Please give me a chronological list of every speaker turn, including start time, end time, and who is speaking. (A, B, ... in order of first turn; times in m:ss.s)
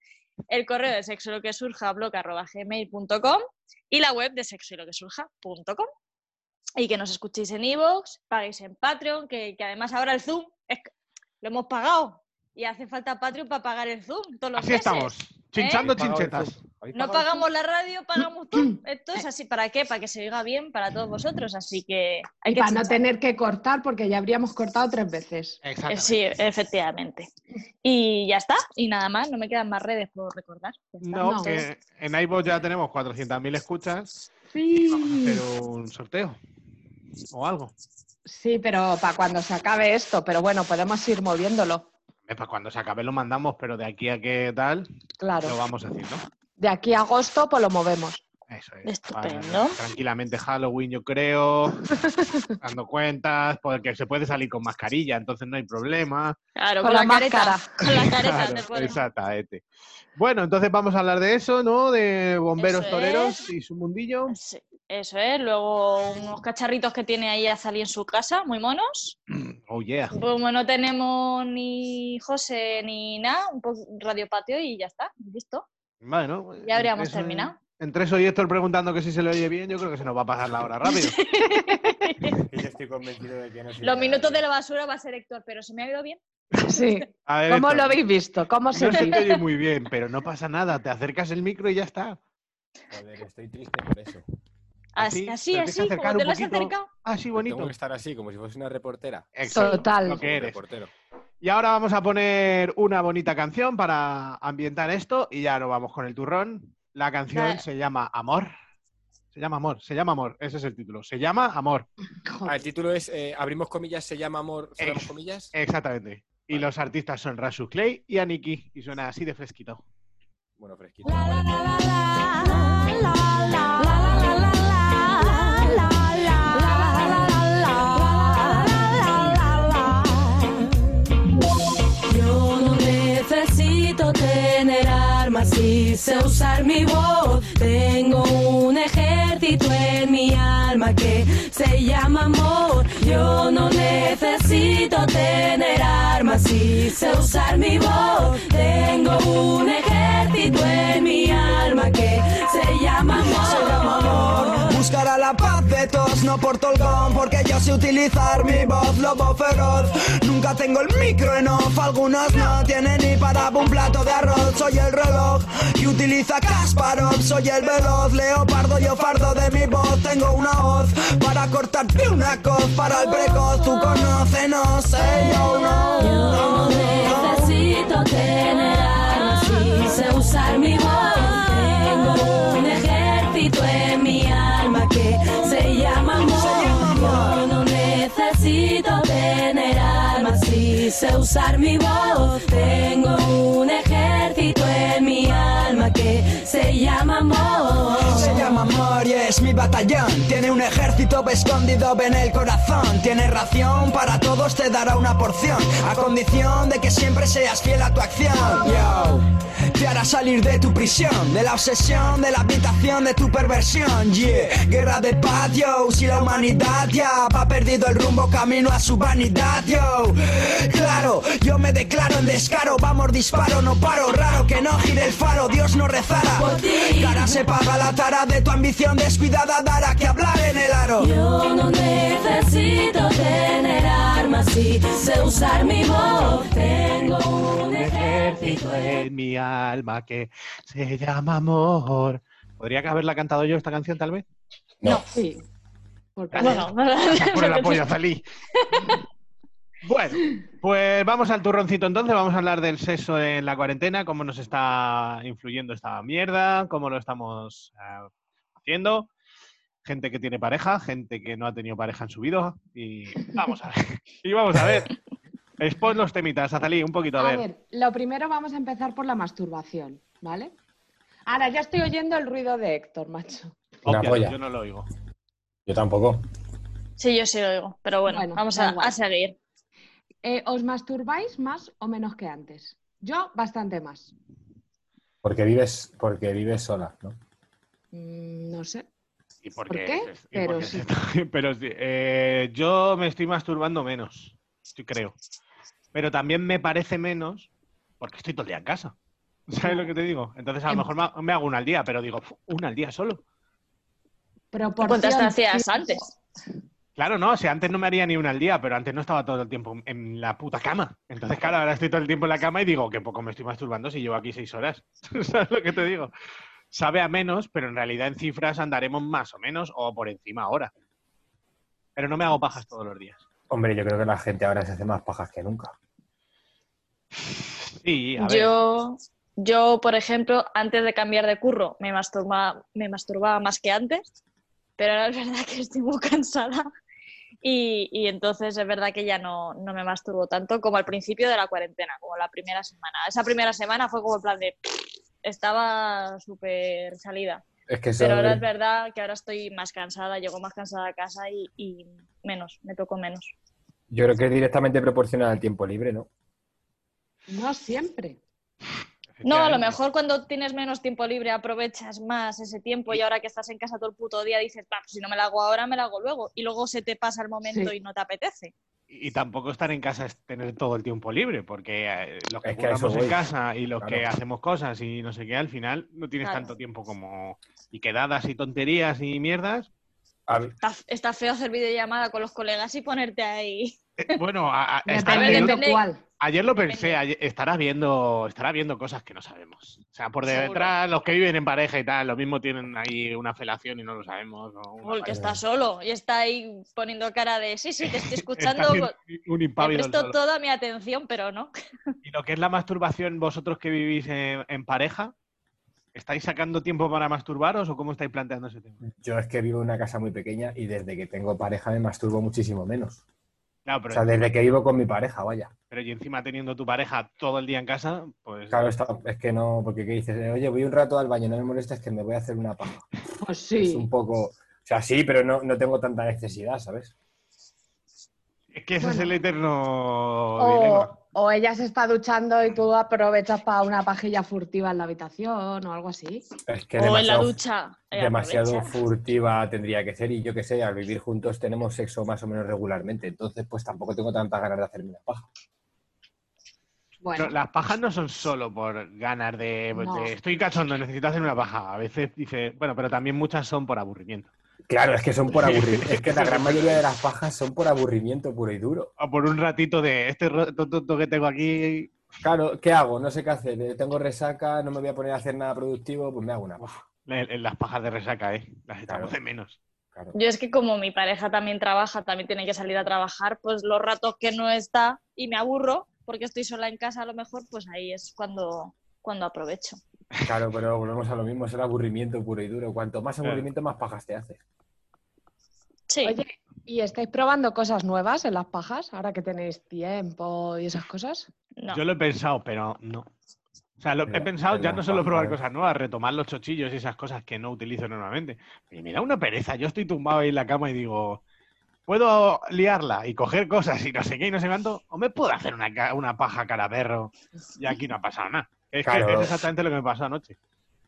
0:00.5-0:05.9 A
0:06.8-0:15.9 A
0:14.6-0:16.6 B
0:15.8-0:17.4 C
0:16.9-0:23.0 A
0:22.4-0:25.6 D
0:25.6-0:26.2 B
0:25.9-0:27.3 A
0:27.8-0:31.6 A
0:31.0-0:34.2 B
0:31.2-0:31.6 D
0:34.5-0:35.4 D
0:34.9-0:36.4 B
0:37.3-0:37.7 B
0:38.2-0:41.9 D
0:42.3-0:44.9 B
0:45.2-0:45.5 D
0:45.4-0:46.2 B
0:46.6-0:48.2 D
0:48.5-0:51.9 B
0:48.8-0:49.8 A
0:51.9-0:52.5 D
0:52.6-0:56.4 B
0:56.6-0:59.0 A
0:56.8-0:57.7 D
0:57.8-0:59.6 B
1:00.2-1:04.3 B
1:02.6-1:03.4 A
1:04.3-1:09.2 A
1:09.3-1:10.2 B
1:10.1-1:15.7 A
1:16.0-1:21.2 B
1:16.6-1:17.6 A
1:20.9-1:22.4 A
1:21.4-1:21.8 D
1:22.4-1:24.4 C
1:23.8-1:26.2 A
1:26.6-1:29.2 D
1:27.2-1:28.0 B
1:28.7-1:32.2 B
1:32.9-1:34.2 C
1:35.0-1:36.9 A
1:35.0-1:37.7 B
1:37.3-1:39.3 C
1:39.4-1:40.6 B
1:39.5-1:40.2 D
1:40.0-1:40.9 C
1:41.4-1:48.5 B
1:47.3-1:47.6 A
1:49.3-1:51.9 B
1:52.2-1:52.6 D
1:52.4-1:55.5 C
1:54.8-1:59.8 B
2:00.6-2:01.6 C
2:04.0-2:10.4 E
2:12.0-2:34.8 E
2:33.5-2:57.5 F
2:56.0-3:18.5 E
3:06.3-3:07.5 F
3:17.9-3:51.1 F
3:46.4-3:47.3 E
3:51.0-3:58.9 E
3:57.7-4:04.2 B
4:05.1-4:05.4 D
4:06.2-4:06.7 D
4:06.3-4:08.2 B
4:06.4-4:07.9 A
4:08.5-4:09.0 A
4:09.8-4:18.1 B
4:18.6-4:19.1 B
4:19.8-4:25.0 B
4:25.6-4:27.4 B
4:27.2-4:30.5 D
4:31.3-4:33.6 D
4:33.8-4:34.9 B
4:33.8-4:34.4 C
4:35.6-4:36.2 C
4:37.0-4:39.4 A
4:38.0-4:39.0 D
4:40.2-4:44.1 D
4:45.2-4:47.2 C
4:47.9-4:48.9 D
4:49.4-4:55.2 B
4:49.7-4:50.8 D
4:55.9-4:57.5 B
4:58.0-4:58.9 B
4:59.5-5:03.2 B
4:59.6-4:59.9 D
5:04.5-5:06.0 D
5:04.8-5:06.1 A
5:07.0-5:16.1 B
5:16.7-5:20.7 B
5:22.0-5:23.2 B
5:23.5-5:25.8 C
5:27.1-5:28.6 B
5:28.2-5:34.0 A
5:34.8-5:36.7 A
5:37.4-5:47.4 A
5:47.7-5:48.4 C
5:48.0-5:53.3 A
5:53.9-5:56.1 C
5:57.3-5:58.2 D
5:59.2-5:59.8 B
5:59.2-6:08.5 A
6:07.4-6:07.7 D
6:08.9-6:19.7 B
6:12.4-6:13.2 C
6:13.8-6:14.0 C
6:16.2-6:16.5 A
6:20.3-6:20.5 C
6:20.6-6:24.2 A
6:24.0-6:25.6 B
6:24.9-6:26.0 D
6:25.0-6:25.8 A
6:26.2-6:35.2 B
6:26.6-6:27.0 A
6:30.3-6:30.7 A
6:34.8-6:38.9 A
6:35.1-6:35.4 C
6:37.8-6:40.2 B
6:39.6-6:41.5 A
6:42.0-6:45.1 B
6:45.9-6:48.8 B
6:48.8-6:53.0 C
6:53.6-6:54.3 B
6:53.9-6:55.5 C
6:55.7-6:58.7 B
6:58.5-7:02.8 C
7:03.2-7:03.9 D
7:03.6-7:06.9 C
7:08.5-7:10.9 B
7:08.8-7:09.1 D
7:10.4-7:16.2 D
7:16.5-7:17.4 C
7:16.8-7:18.8 A
7:17.9-7:25.3 C
7:27.0-7:27.3 D
7:27.2-7:34.3 B
7:29.8-7:30.1 D
7:34.7-7:38.9 C
7:35.3-7:36.8 B
7:39.0-7:41.9 B
7:42.2-7:46.6 C
7:46.6-7:49.6 B
7:48.9-7:49.1 C
7:50.1-7:59.8 A
8:00.2-8:04.4 C
8:05.9-8:06.2 A
8:06.0-8:11.3 D
8:11.7-8:13.1 B
8:13.8-8:21.2 B
8:14.1-8:15.4 C
8:21.9-8:30.4 B
8:28.8-8:29.4 C